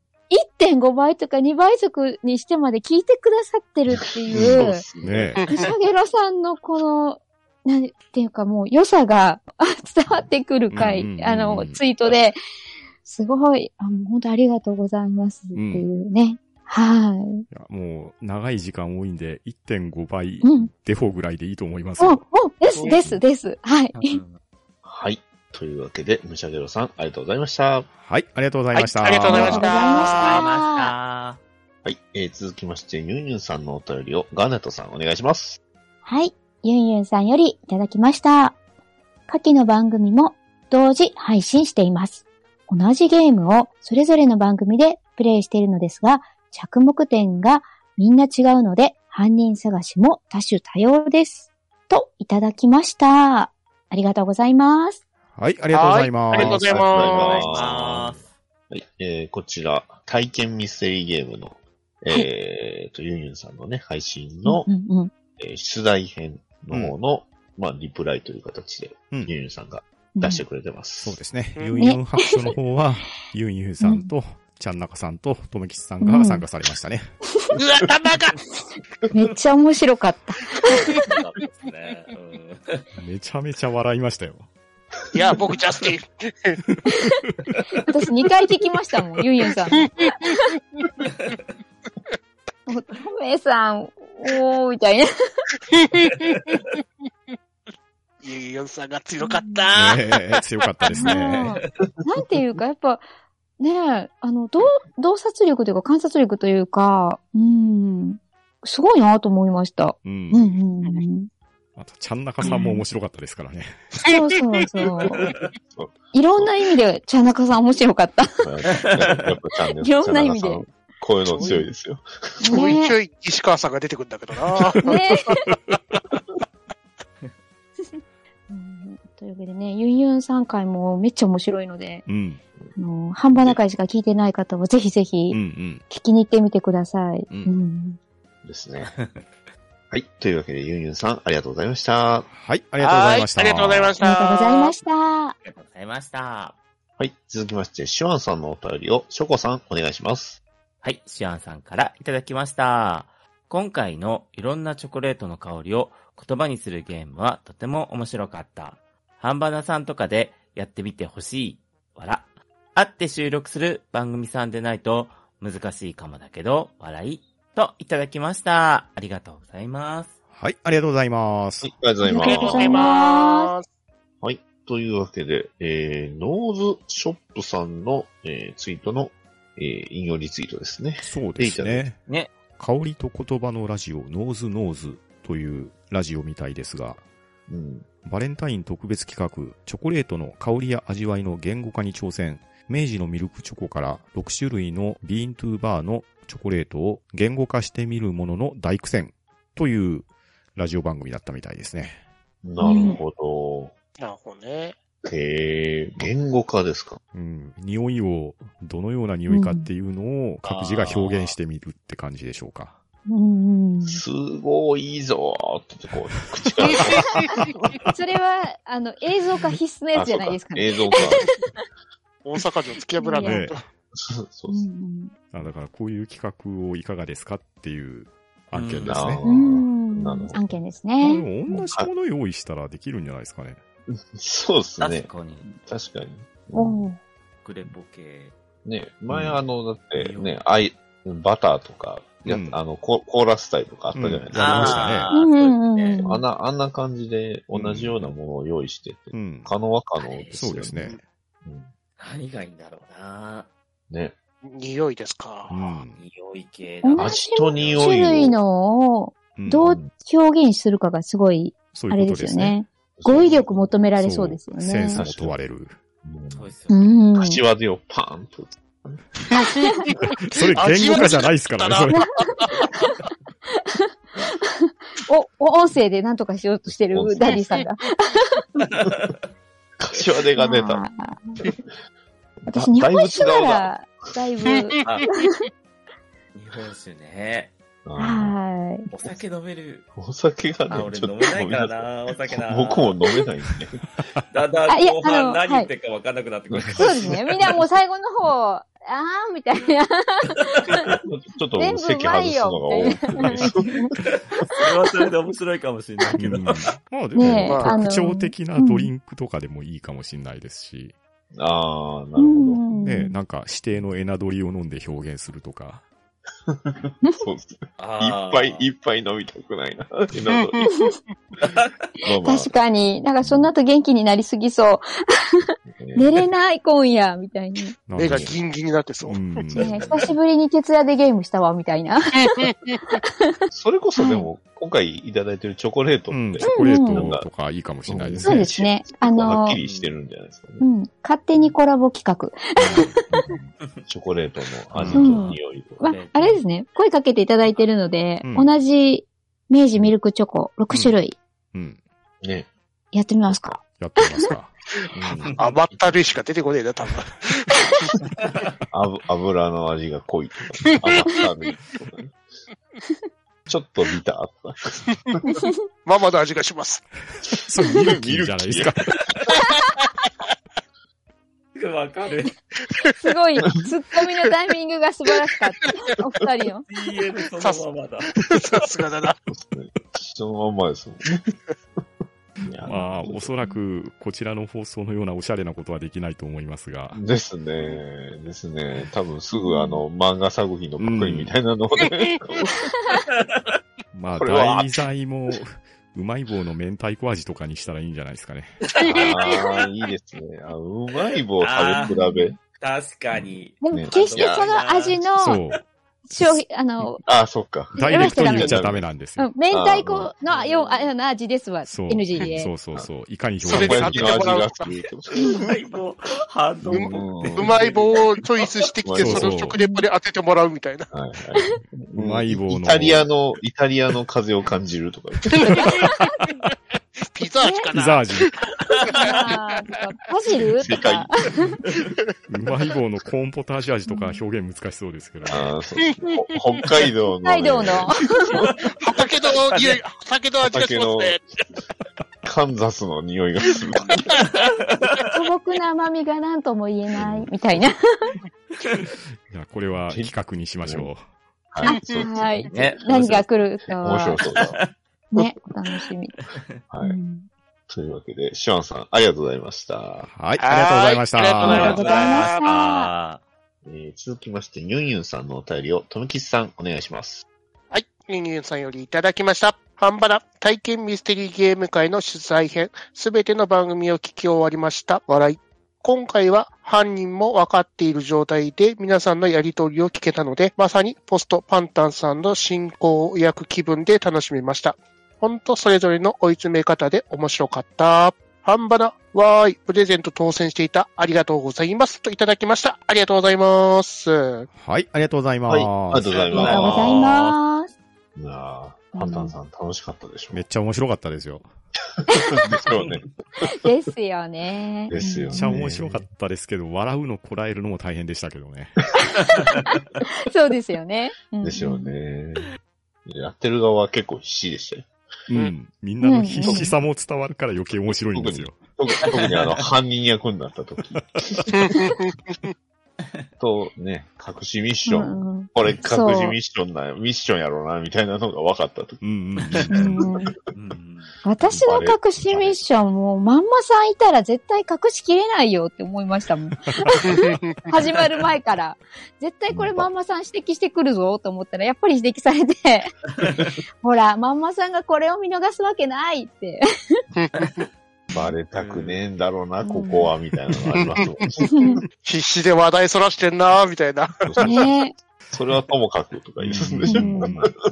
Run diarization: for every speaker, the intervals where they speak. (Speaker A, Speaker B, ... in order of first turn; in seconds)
Speaker A: 0.3-4.9, 5.5-12.4, 13.0-17.5, 20.4-20.7, 22.0-24.2, 29.3-30.9, 36.0-38.6, 39.3-55.0, 64.5-65.1, 70.2-70.4, 71.8-72.5, 73.8-74.1, 76.0-76.5, 79.1-81.1, 86.9-87.2, 87.8-90.6, 92.7-95.1, 99.2-99.7, 100.9-103.0, 103.6-111.3, 112.5-112.8, 114.1-115.3, 116.1-118.5, 119.8-120.6, 122.4-123.0, 124.8-125.4, 127.8-132.1, 132.8-138.0, 144.0-145.4, 172.0-173.5, 202.6-203.0, 209.3-209.7, 213.1-214.0, 217.3-221.4, 223.0-223.5, 224.5-225.1, 229.2-231.3, 236.5-237.0, 245.1-246.2, 256.8-265.1, 266.7-267.4, 271.9-273.0, 273.6-278.4, 280.4-281.4, 282.5-285.4, 288.0-288.9, 294.7-295.7, 296.8-300.9, 301.6-303.9, 307.1-308.9, 312.2-313.2, 322.2-324.9, 325.9-327.7, 329.6-332.5, 333.0-333.3, 334.0-334.3, 336.4-337.1, 338.2-339.6, 340.6-343.0, 344.9-351.2, 352.9-354.3, 365.3-365.5, 373.0-376.6, 389.3-389.8, 401.8-402.4, 403.6-405.4, 406.1-407.0, 407.7-408.7, 409.2-412.5, 419.6-419.9, 427.4-427.7, 428.9-431.5, 433.9-434.2, 437.2-438.3, 445.1-448.1, 451.6-454.2, 455.1-456.1, 456.8-457.3, 461.4-462.9, 496.3-497.7, 498.9-499.4, 503.4-505.4, 510.1-511.9, 516.0-516.7, 524.9-526.4, 529.7-530.3, 531.2-542.9, 543.8-546.6, 549.6-550.1, 551.5-551.8, 554.4-554.9, 556.9-557.4
Speaker B: 4.3-5.5, 22.8-23.2, 24.9-27.9, 31.8-35.6, 56.3-58.2, 58.7-64.7, 65.4-71.2, 115.7-116.5, 118.4-122.7, 133.3-133.6, 138.4-138.9, 139.9-142.3, 147.0-150.4, 171.6-172.9, 174.2-181.8, 187.5-187.9, 202.4-203.7, 205.1-207.0, 213.8-217.2, 219.9-221.3, 223.9-224.7, 228.9-230.6, 231.5-231.9, 233.9-236.8, 238.7-244.9, 246.0-251.7, 253.9-254.2, 257.0-258.4, 259.6-259.9, 263.0-263.7, 264.9-265.4, 266.0-266.5, 267.1-269.0, 276.9-277.4, 279.8-280.9, 282.4-283.7, 287.9-288.4, 290.0-293.8, 296.5-297.2, 300.7-304.0, 311.3-312.6, 316.5-320.6, 322.0-322.6, 323.2-323.5, 325.7-326.1, 328.0-328.3, 333.5-337.3, 337.9-340.7, 342.7-343.2, 343.9-345.8, 352.2-352.5, 354.9-355.4, 358.7-362.2, 363.5-365.2, 367.8-368.7, 379.3-381.2, 382.4-383.4, 386.9-392.6, 394.1-394.8, 398.9-402.4, 403.2-404.5, 407.1-408.9, 409.5-410.1, 413.4-415.5, 416.6-417.6, 418.8-419.4, 420.9-425.7, 430.5-431.3, 435.3-438.5, 440.4-441.2, 442.2-444.2, 447.0-447.3, 449.9-450.9, 451.5-453.2, 453.7-454.6, 456.7-457.0, 457.7-460.1, 463.6-467.2, 495.5-497.3, 498.2-500.4, 502.1-503.0, 504.9-506.1, 511.4-512.5, 513.1-514.9, 518.1-521.5, 523.4-529.0, 529.7-530.1, 531.5-532.6, 539.5-539.9, 548.1-551.8, 554.2-554.7, 555.3-557.5
Speaker C: 4.3-5.5, 10.7-11.8, 15.5-15.9, 17.5-22.2, 28.0-29.7, 55.4-57.0, 66.7-67.0, 71.0-77.1, 83.0-84.5, 86.7-87.1, 99.7-101.6, 110.0-110.6, 111.8-113.8, 132.1-132.4, 135.3-135.8, 137.3-137.5, 142.3-144.0, 170.4-171.7, 181.0-187.0, 188.0-202.0, 207.1-212.8, 216.8-217.9, 223.2-223.6, 225.3-229.2, 231.0-233.6, 239.1-239.4, 242.2-242.6, 243.9-245.1, 247.5-248.1, 249.1-249.5, 250.3-251.0, 255.5-256.0, 259.4-259.7, 261.7-262.6, 264.0-265.8, 270.2-272.1, 306.2-310.9, 312.7-315.8, 327.9-328.4, 329.0-330.0, 336.1-338.5, 342.7-343.5, 344.8-345.2, 348.2-348.6, 350.7-351.0, 351.5-351.8, 353.6-354.6, 367.4-368.9, 382.6-387.0, 390.8-391.3, 393.9-398.5, 405.1-405.6, 406.1-406.4, 407.8-409.4, 411.7-414.4, 418.9-419.6, 422.0-423.1, 425.4-425.9, 427.7-428.3, 432.3-435.6, 449.3-451.0, 460.1-461.8, 494.6-496.7, 500.3-501.5, 505.3-508.9, 515.3-518.6, 521.2-521.7, 529.0-530.1, 536.7-537.0, 556.4-557.5
Speaker D: 23.9-24.4, 29.8-31.4, 57.0-58.3, 80.8-82.8, 118.8-119.2, 138.9-139.2, 145.4-146.6, 150.8-170.2, 210.4-211.3, 228.5-229.2, 234.8-235.6, 237.4-238.3, 240.0-240.4, 244.3-246.1, 250.0-250.3, 252.0-253.5, 256.0-258.0, 266.3-266.8, 278.6-279.2, 286.4-287.5, 288.9-289.9, 290.7-292.9, 294.3-297.2, 304.0-306.6, 317.8-318.7, 321.4-321.7, 339.6-339.9, 344.7-346.4, 355.2-355.6, 371.6-372.4, 376.7-378.3, 392.9-393.6, 398.7-399.6, 401.4-402.0, 402.6-405.0, 410.2-410.9, 415.1-418.5, 438.9-439.8, 444.2-445.1, 452.5-453.2, 454.2-454.6, 461.4-463.2, 496.1-497.1, 519.1-519.6, 529.4-529.7, 530.5-531.1, 548.5-549.0
Speaker E: 28.7-30.4, 55.7-57.6, 77.5-78.4, 85.1-86.6, 89.8-90.1, 95.7-96.8, 98.2-101.1, 121.3-121.6, 122.5-125.4, 142.8-144.7, 172.2-173.7, 204.0-204.8, 222.2-223.6, 254.4-255.6, 269.4-272.7, 307.4-307.8, 320.4-320.7, 328.0-329.7, 332.2-333.0, 355.4-357.9, 365.8-366.9, 378.1-379.2, 413.4-414.7, 416.7-420.9, 425.4-425.9, 427.0-429.4, 438.8-441.2, 451.6-452.1, 460.4-462.4, 467.7-494.5, 521.5-522.5, 537.1-537.6, 547.1-547.7, 551.2-554.6